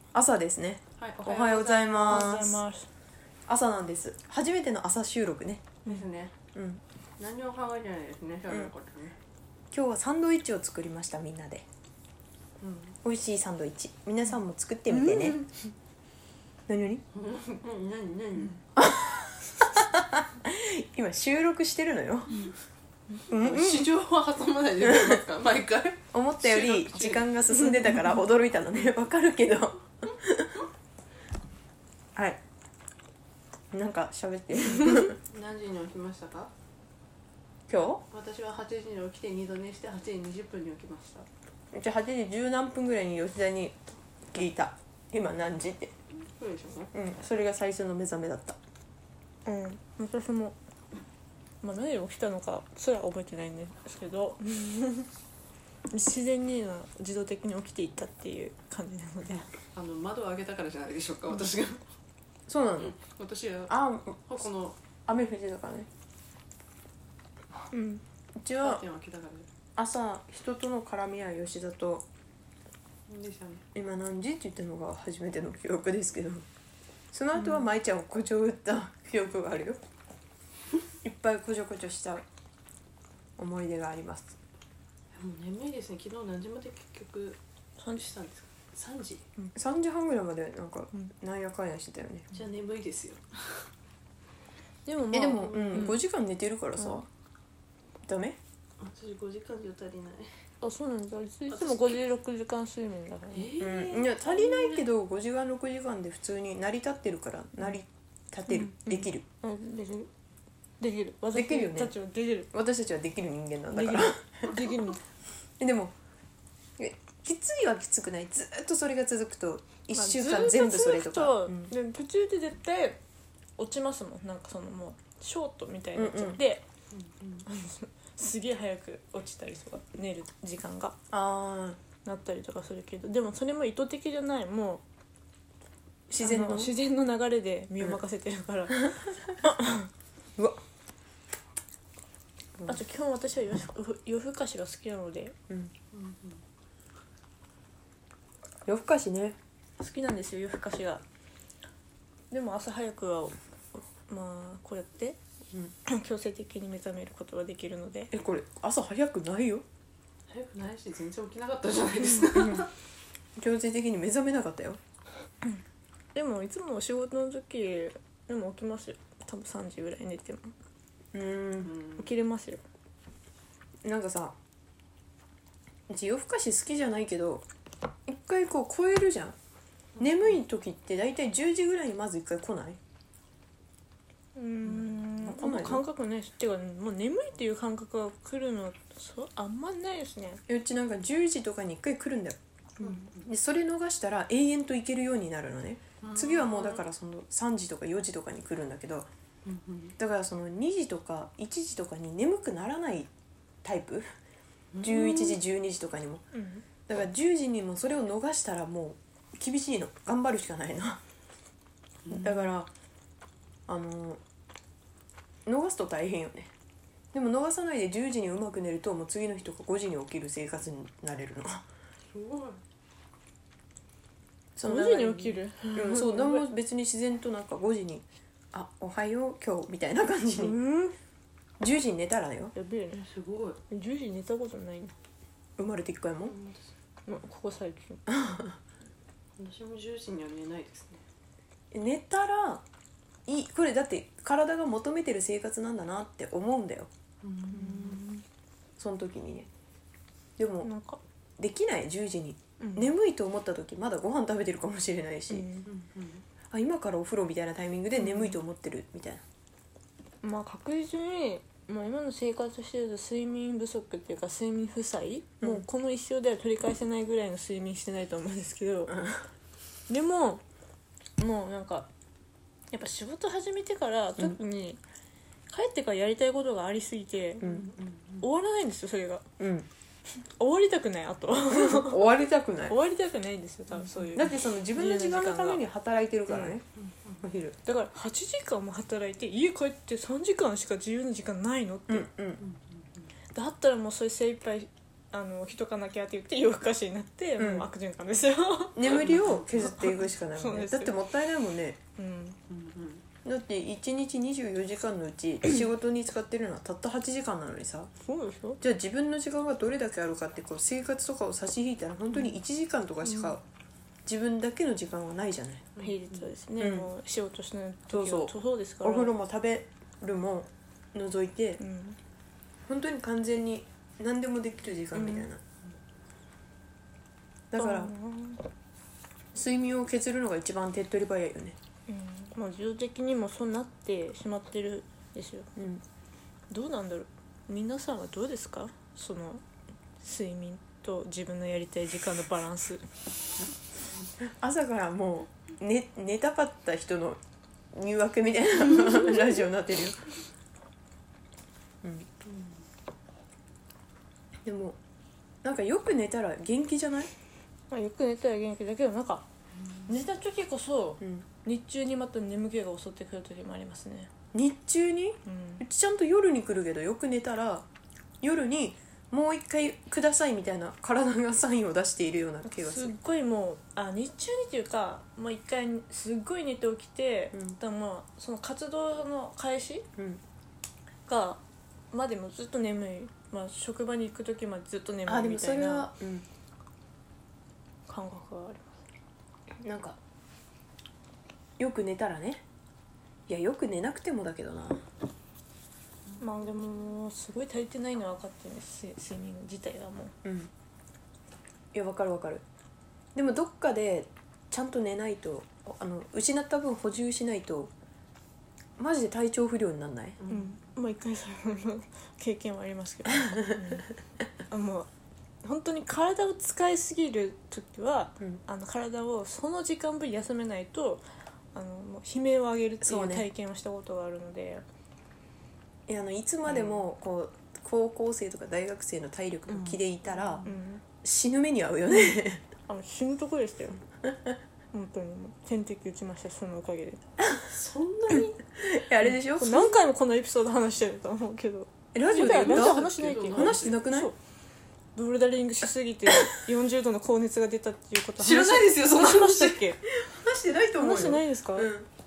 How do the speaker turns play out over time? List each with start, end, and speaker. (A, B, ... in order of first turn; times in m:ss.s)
0:00.1-0:02.6 A
0:01.0-0:02.3 B
0:02.0-0:02.9 C
0:03.5-0:05.8 A
0:05.8-0:06.3 B
0:06.5-0:06.8 A
0:07.2-0:09.2 B
0:09.7-0:11.6 A
0:12.6-0:12.9 B
0:13.0-0:15.4 A
0:16.7-0:17.0 A
0:17.1-0:18.7 B
0:18.8-0:22.5 A
0:23.3-0:23.9 A
0:23.4-0:27.3 B
0:24.8-0:25.2 A
0:26.1-0:30.6 A
0:27.5-0:28.0 C
0:32.1-0:32.4 A
0:33.7-0:35.2 A
0:35.3-0:36.5 B
0:37.7-0:38.0 A
0:38.1-0:41.3 B
0:41.7-0:43.8 A
0:44.3-0:45.9 A
0:46.2-0:46.9 B
0:46.9-0:48.6 A
0:49.4-0:50.6 C
0:51.6-0:55.1 C
0:55.9-0:59.5 C
0:59.7-1:01.8 B
1:02.5-1:03.0 A
1:02.8-1:03.7 B
1:03.7-1:04.3 A
1:04.2-1:04.8 B
1:05.0-1:05.9 A
1:07.7-1:08.0 C
1:08.4-1:08.8 A
1:08.6-1:09.5 B
1:09.8-1:12.0 A
1:13.1-1:13.6 B
1:13.7-1:16.4 A
1:17.1-1:19.8 A
1:21.0-1:22.2 A
1:23.4-1:24.4 A
1:25.1-1:27.4 B
1:27.9-1:29.2 B
1:29.5-1:32.3 A
1:32.3-1:33.7 B
1:34.8-1:36.0 C
1:35.1-1:37.1 A
1:35.5-1:35.9 B
1:36.8-1:37.0 C
1:38.0-1:38.4 A
1:38.8-1:40.3 B
1:40.6-1:43.5 C
1:41.5-1:42.0 B
1:43.3-1:44.8 B
1:43.6-1:49.2 A
1:48.5-1:50.1 C
1:50.8-1:52.5 C
1:51.3-1:51.9 A
1:52.5-1:54.6 A
1:53.7-1:55.0 C
1:55.6-1:55.9 A
1:56.8-2:01.7 A
1:59.9-2:03.0 C
2:03.6-2:06.6 C
2:05.9-2:06.4 A
2:06.9-2:07.4 B
2:07.4-2:11.0 C
2:11.1-2:11.8 A
2:12.0-2:14.8 C
2:16.1-2:16.7 A
2:16.2-2:19.9 C
2:22.6-2:25.4 C
2:25.9-2:26.4 B
2:28.6-2:29.4 A
2:29.8-2:31.0 C
2:32.3-2:33.3 C
2:33.9-2:35.2 C
2:35.8-2:38.1 C
2:38.1-2:39.6 A
2:40.3-2:42.7 B
2:43.4-2:44.8 A
2:46.1-2:50.5 C
2:51.1-2:51.7 A
2:51.6-2:52.0 B
2:52.0-2:52.6 C
2:53.8-2:54.3 A
2:55.9-2:57.4 A
2:58.0-2:59.4 A
3:00.0-3:02.8 A
3:04.4-3:10.4 C
3:05.2-3:05.8 A
3:10.5-3:12.4 A
3:12.8-3:13.2 B
3:13.1-3:19.1 A
3:16.0-3:16.8 B
3:19.4-3:19.9 B
3:20.0-3:23.1 A
3:23.6-3:24.1 A
3:24.7-3:25.4 B
3:24.8-3:26.2 A
3:26.3-3:26.6 C
3:26.9-3:31.0 A
3:32.1-3:32.7 A
3:33.7-3:34.2 A
3:35.4-3:36.5 A
3:37.1-3:41.6 A
3:42.1-3:42.6 B
3:44.6-3:50.6 A
3:44.6-3:46.5 C
3:50.4-3:51.0 C
3:51.6-3:52.5 A
3:52.5-3:53.1 C
3:53.0-3:53.6 B
3:53.7-3:54.9 C
3:55.6-3:56.3 A
3:56.3-3:56.7 B
3:57.1-3:58.1 C
3:58.1-3:58.6 A
3:59.4-4:01.0 B
4:01.7-4:02.6 A
4:03.2-4:06.9 A
4:07.2-4:08.0 B
4:07.5-4:08.2 C
4:08.8-4:09.5 A
4:10.4-4:10.7 A
4:10.6-4:11.0 C
4:11.4-4:15.5 A
4:12.6-4:12.9 C
4:15.3-4:15.7 C
4:15.6-4:16.2 B
4:16.5-4:19.2 A
4:18.0-4:18.4 C
4:20.2-4:29.0 C
4:28.9-4:29.2 A
4:29.9-4:30.4 C
4:31.2-4:31.9 C
4:32.7-4:34.8 C
4:35.5-4:37.4 C
4:37.4-4:38.2 B
4:37.4-4:37.7 A
4:38.2-4:39.2 C
4:39.4-4:39.7 A
4:40.2-4:42.0 C
4:41.5-4:42.8 A
4:42.7-4:45.6 C
4:44.1-4:46.6 A
4:46.3-4:46.6 C
4:46.8-4:47.2 B
4:47.2-4:47.6 A
4:47.6-4:52.1 C
4:51.9-4:52.4 A
4:52.4-4:53.1 B
4:53.3-5:01.0 C
4:57.4-4:57.7 A
4:58.7-5:01.8 A
4:59.1-4:59.5 B
5:02.0-5:02.4 C
5:02.5-5:03.0 B
5:03.2-5:07.9 A
5:08.0-5:08.6 C
5:08.6-5:13.4 A
5:13.0-5:13.4 C
5:14.0-5:15.7 A
5:15.8-5:16.3 B
5:15.8-5:19.1 C
5:16.6-5:16.9 A
5:17.9-5:21.6 A
5:21.6-5:22.0 C
5:22.7-5:25.4 A
5:24.9-5:25.3 C
5:27.5-5:27.9 A
5:27.6-5:28.4 C
5:29.3-5:31.6 A
5:31.9-5:35.5 C
5:35.6-5:35.8 A
5:36.5-5:39.4 C
5:40.0-5:42.8 C
5:44.2-5:47.2 A
5:47.7-5:50.1 A
5:51.8-5:52.1 A
5:54.4-5:54.8 A
5:55.4-5:57.1 A
5:57.7-5:59.2 C
5:59.8-6:04.1 C
6:04.3-6:07.7 A
6:05.2-6:05.6 C
6:08.2-6:12.9 A
6:12.4-6:19.9 C
6:20.0-6:20.2 A
6:21.0-6:25.9 C
6:25.0-6:26.3 A
6:27.9-6:28.8 C
6:29.6-6:30.0 A
6:31.6-6:32.4 A
6:33.3-6:34.8 A
6:36.2-6:40.1 C
6:40.2-6:40.5 A
6:41.7-6:42.4 A
6:43.1-6:47.7 A
6:48.8-6:50.2 A
6:50.2-6:50.5 B
6:50.3-6:53.9 C
6:54.5-6:54.9 C
6:55.4-7:04.6 C
7:02.8-7:03.2 A
7:05.9-7:10.5 A
7:09.5-7:09.8 C
7:10.4-7:10.8 C
7:11.0-7:12.4 A
7:12.7-7:13.8 C
7:14.7-7:17.0 C
7:17.4-7:18.4 B
7:18.5-7:19.8 A
7:19.2-7:24.1 C
7:21.9-7:24.1 A
7:22.1-7:23.8 B
7:24.9-7:29.8 C
7:28.2-7:29.6 B
7:29.8-7:31.9 A
7:30.8-7:31.7 C